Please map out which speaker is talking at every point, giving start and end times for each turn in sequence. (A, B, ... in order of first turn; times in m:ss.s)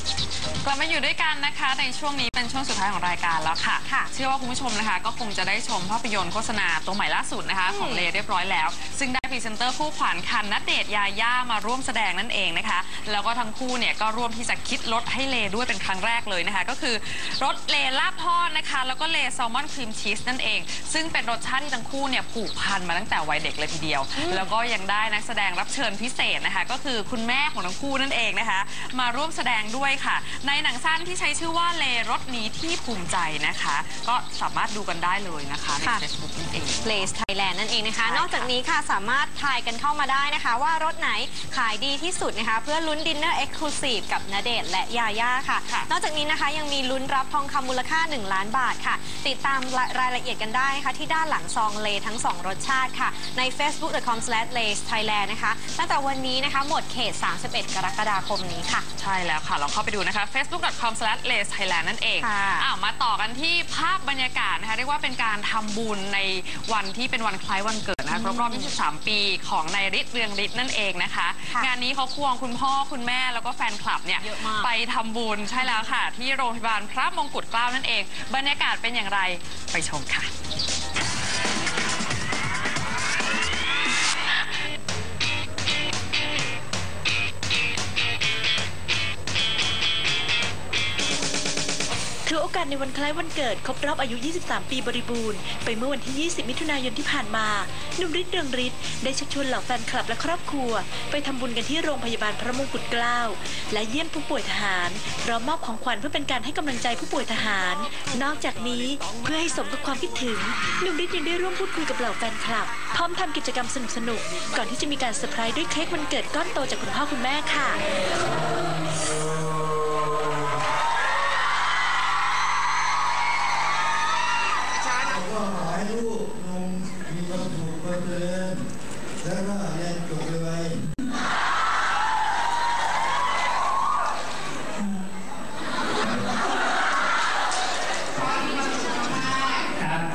0:00.6-0:37.1 A
0:07.7-0:08.1 B
0:24.2-0:24.5 B
0:35.8-0:36.0 B
0:36.8-0:58.9 B
0:38.0-0:38.5 A
0:45.6-0:45.9 A
0:59.0-1:20.3 A
1:02.2-1:02.7 B
1:08.1-1:08.8 B
1:14.2-1:14.7 B
1:15.5-1:15.9 B
1:32.2-1:57.8 C
1:58.3-1:59.9 D
2:05.1-2:08.7 D
2:09.2-2:10.8 D
2:18.2-2:18.6 B
2:19.2-2:19.5 B